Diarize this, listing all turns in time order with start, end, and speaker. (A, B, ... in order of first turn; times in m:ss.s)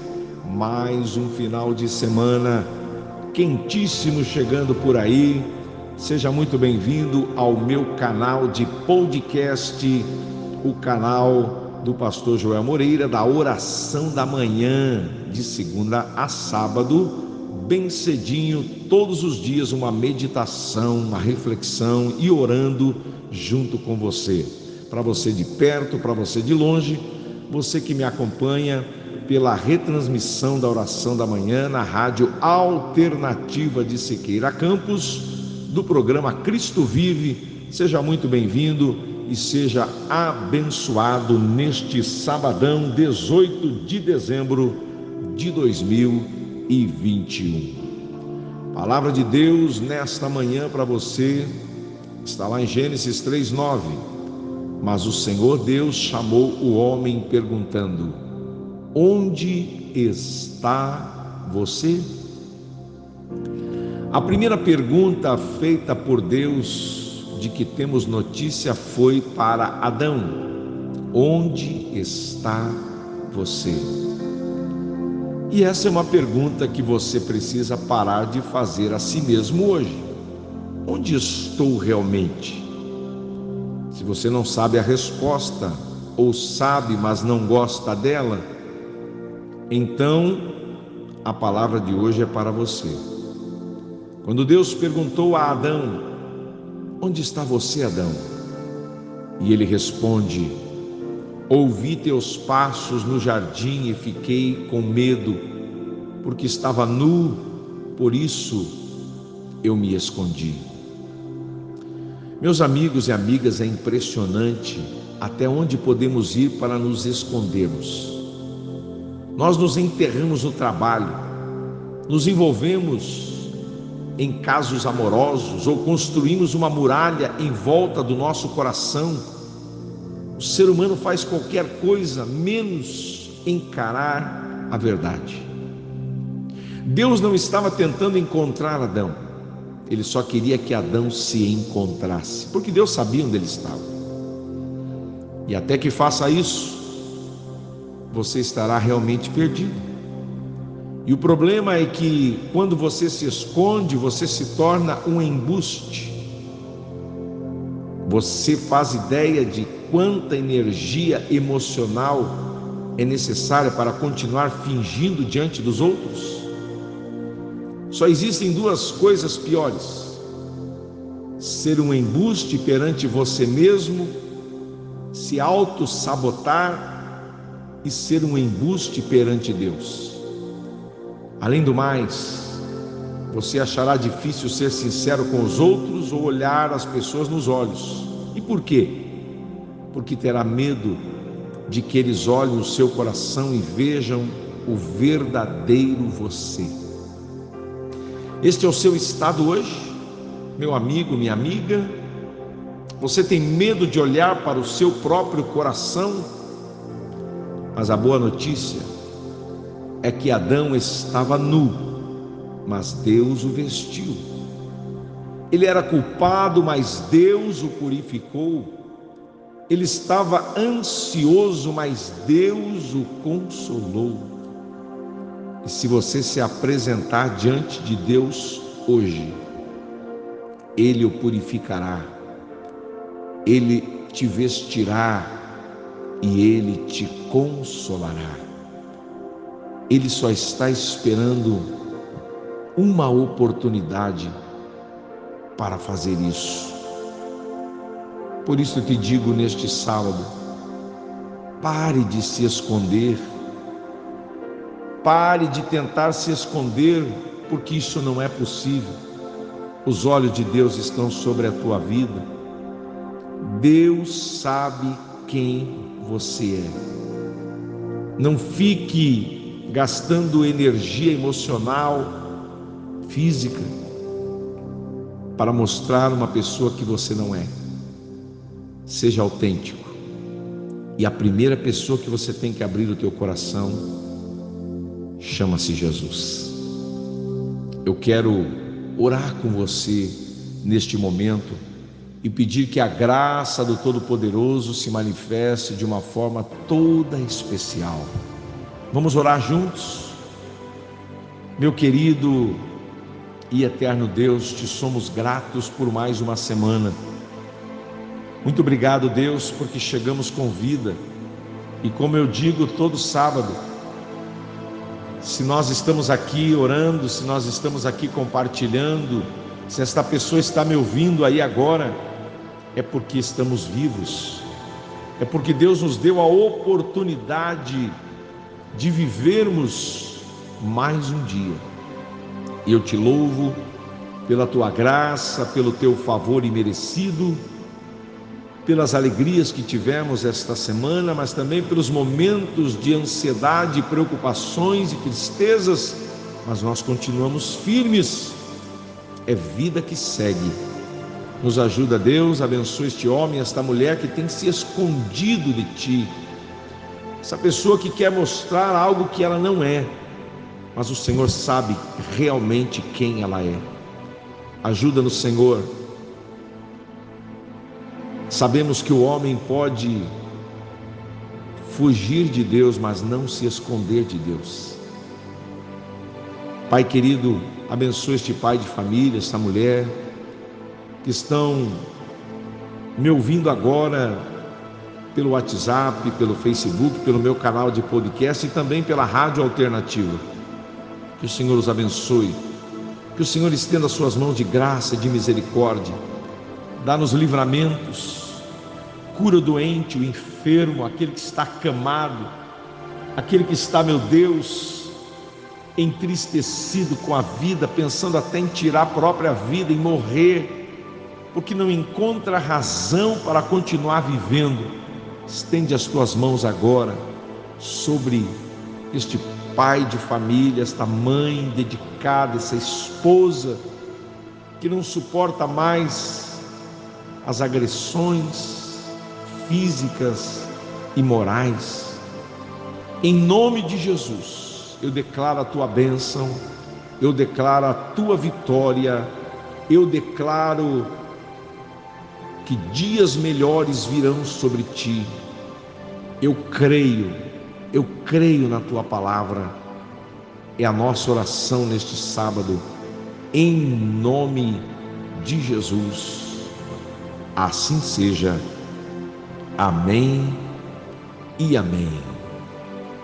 0:00.4-0:02.7 A
0:03.3-0:10.1 A
0:10.6-0:47.8 A
0:48.7-0:51.5 A
0:52.2-0:54.0 A
0:54.8-0:58.2 A
0:58.9-1:02.1 A
1:04.1-1:10.5 A
1:11.1-1:13.9 A
1:15.5-1:20.1 A
1:20.8-1:22.7 A
1:23.9-1:28.4 A
1:29.7-1:30.6 A
1:31.2-1:33.0 A
1:34.2-1:36.1 A
1:37.0-1:38.2 A
1:39.4-1:40.6 A
1:41.5-1:45.4 A
1:46.2-1:48.8 A
1:49.6-1:50.6 A
1:52.4-1:58.3 A
1:59.4-2:01.2 A
2:02.1-2:03.5 A
2:04.2-2:09.3 A
2:10.4-2:15.5 A
2:16.8-2:19.2 A
2:19.9-2:23.9 A
2:25.4-2:27.0 A
2:28.1-2:29.8 A
2:31.0-2:36.2 A
2:38.0-2:46.5 A
2:47.9-2:50.2 A
2:51.4-2:54.2 A
2:55.1-2:57.1 A
2:57.8-3:00.2 A
3:01.4-3:02.6 A
3:03.3-3:09.1 A
3:09.9-3:11.0 A
3:11.7-3:16.8 A
3:18.4-3:20.0 A
3:20.6-3:21.9 A
3:23.0-3:26.3 A
3:27.7-3:28.9 A
3:30.0-3:32.0 A
3:32.6-3:34.2 A
3:35.5-3:38.7 A
3:39.7-3:44.3 A
3:45.6-3:49.4 A
3:50.8-3:52.2 A
3:53.4-3:55.5 A
3:56.2-3:58.4 A
3:59.9-4:01.7 A
4:02.8-4:04.3 A
4:05.6-4:06.8 A
4:08.4-4:10.3 A
4:11.6-4:13.3 A
4:15.0-4:19.0 A
4:19.8-4:22.2 A
4:23.4-4:26.8 A
4:28.2-4:32.2 A
4:33.0-4:33.7 A
4:35.4-4:37.5 A
4:38.9-4:40.0 A
4:41.0-4:43.9 A
4:45.2-4:46.6 A
4:47.8-4:51.6 A
4:52.2-4:58.1 A
4:58.9-5:00.2 A
5:01.6-5:02.6 A
5:03.5-5:07.0 A
5:08.4-5:11.0 A
5:11.8-5:13.6 A
5:15.2-5:22.0 A
5:22.7-5:24.5 A
5:25.2-5:28.0 A
5:28.7-5:31.6 A
5:32.6-5:33.6 A
5:34.3-5:37.4 A
5:38.6-5:48.4 A
5:49.2-5:50.6 A
5:51.4-5:56.1 A
5:57.2-5:59.9 A
6:00.7-6:03.7 A
6:04.6-6:05.7 A
6:08.3-6:10.1 A
6:11.6-6:14.8 A
6:16.7-6:20.0 A
6:21.0-6:21.8 A
6:23.0-6:24.3 A
6:25.1-6:30.2 A
6:31.2-6:32.4 A
6:33.1-6:36.0 A
6:36.8-6:38.5 A
6:39.1-6:42.3 A
6:43.2-6:45.0 A
6:45.8-6:50.6 A
6:51.3-6:54.7 A
6:55.3-6:57.0 A
6:57.6-6:58.3 A
6:58.9-7:03.6 A
7:04.6-7:06.5 A
7:07.2-7:12.0 A
7:13.0-7:16.4 A
7:17.0-7:19.1 A
7:19.7-7:20.9 A
7:22.4-7:25.1 A
7:26.2-7:27.2 A
7:27.7-7:29.6 A
7:30.6-7:32.6 A
7:33.3-7:36.5 A
7:37.4-7:38.4 A
7:39.6-7:40.4 A
7:41.4-7:42.2 A